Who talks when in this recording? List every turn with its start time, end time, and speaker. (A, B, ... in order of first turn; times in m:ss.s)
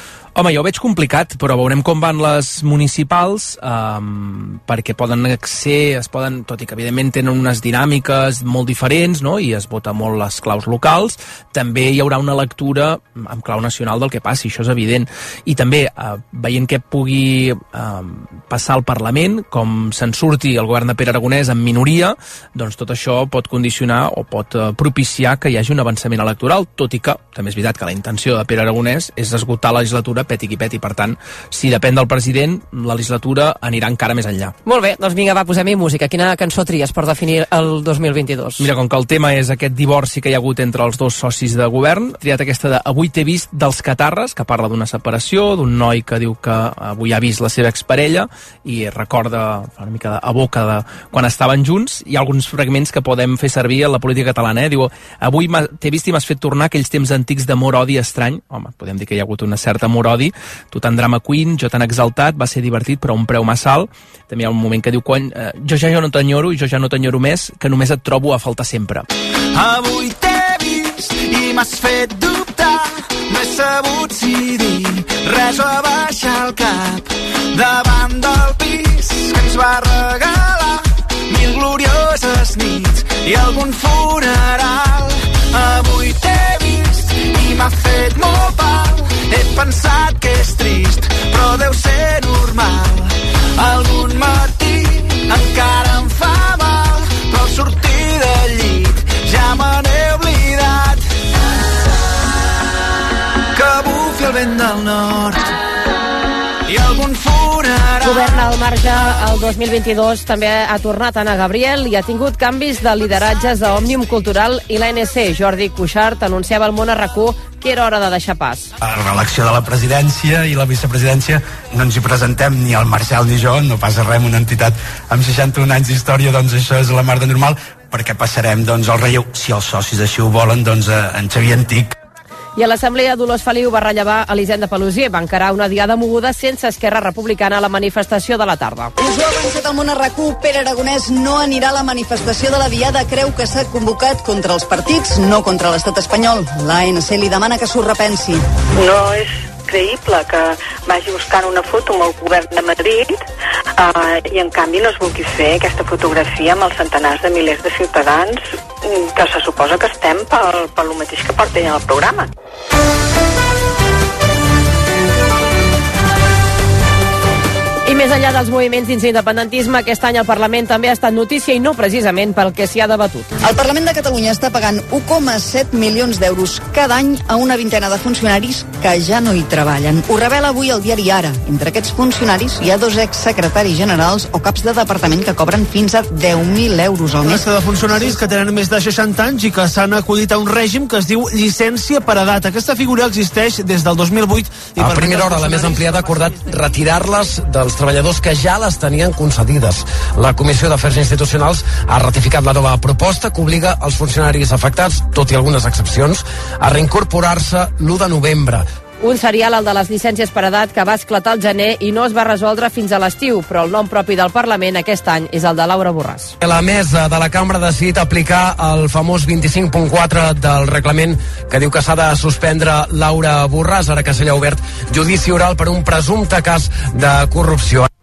0:00.4-0:34.6 A
0:34.7-0:38.7 B
0:38.6-1:09.1 A
1:09.5-1:41.0 C
1:43.5-1:45.5 C
1:46.7-1:48.4 C
1:48.0-1:58.7 B
1:58.9-2:01.2 D
2:01.8-2:04.6 D
2:05.3-2:07.0 D
2:07.9-2:08.2 D
2:09.0-2:10.6 D
2:11.1-2:11.8 D
2:12.6-2:18.9 B
2:19.0-2:28.4 E
2:28.8-2:33.2 F
2:33.8-2:42.3 F
2:47.9-2:53.3 B
2:53.4-3:07.5 E
3:07.2-3:16.8 G
3:14.8-3:28.7 H
3:29.0-3:36.3 B
3:36.4-3:47.9 H